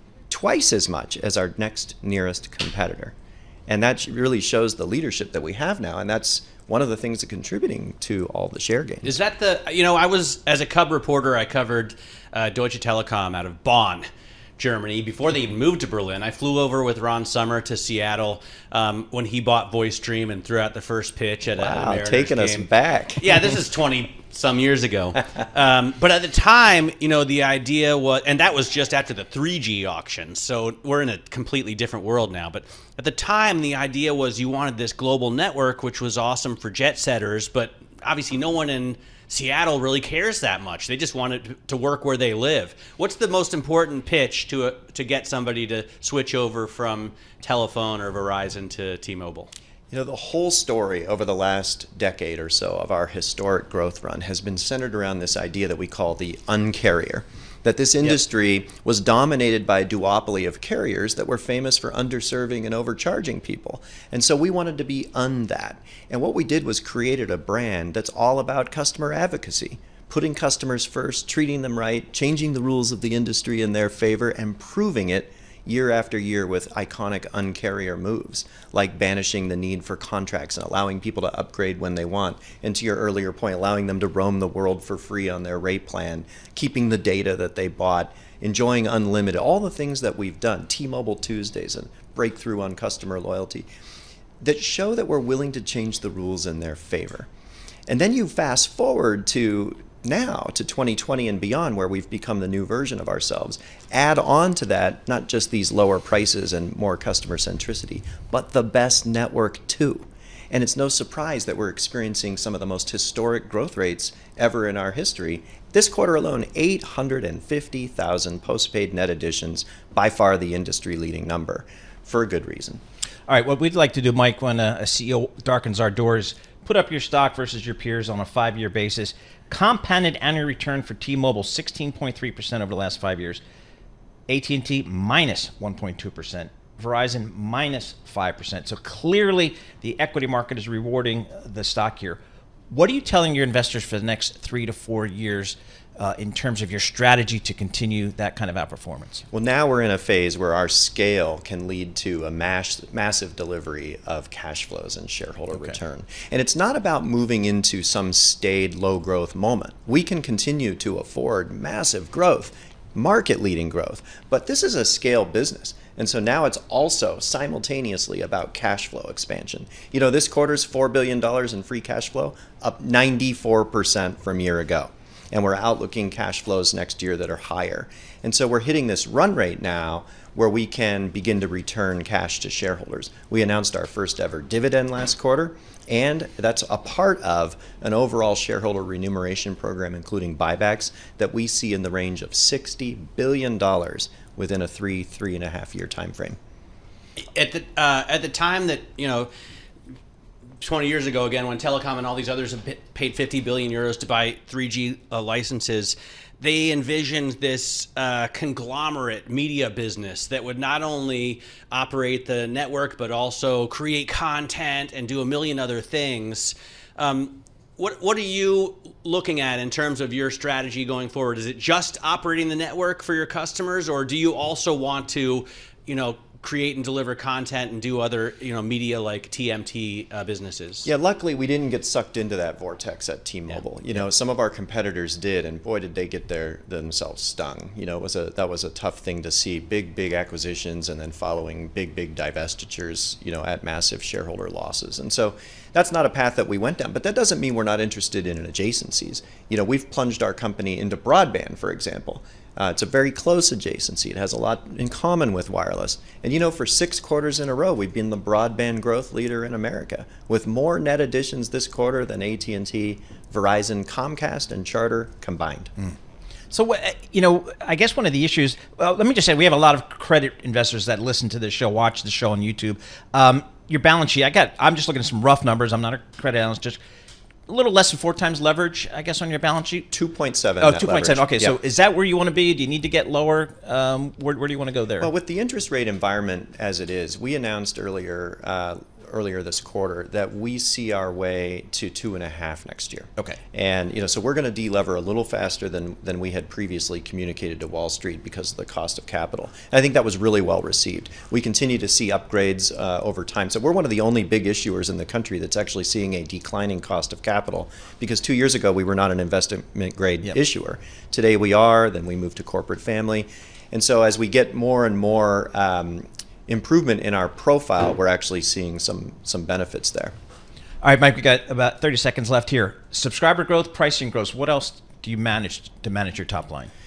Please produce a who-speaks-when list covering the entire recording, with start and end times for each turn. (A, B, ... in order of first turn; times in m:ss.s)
0:00.3-0:03.1 A
0:03.7-0:09.1 A
0:09.0-0:14.0 B
0:14.6-0:49.5 B
0:21.5-0:23.3 A
0:49.9-1:33.6 A
1:34.4-1:37.3 A
1:37.9-2:02.8 A
2:03.3-2:13.4 C
2:14.3-2:22.2 C
2:22.7-2:29.2 C
2:29.3-3:16.4 A
3:17.2-3:19.3 B
3:20.6-3:50.9 B
3:50.8-4:25.7 A
4:26.5-4:36.8 C
4:37.5-4:39.9 C
4:39.9-4:41.5 A
4:40.6-4:45.1 C
4:45.0-5:20.1 A
5:20.8-5:26.7 C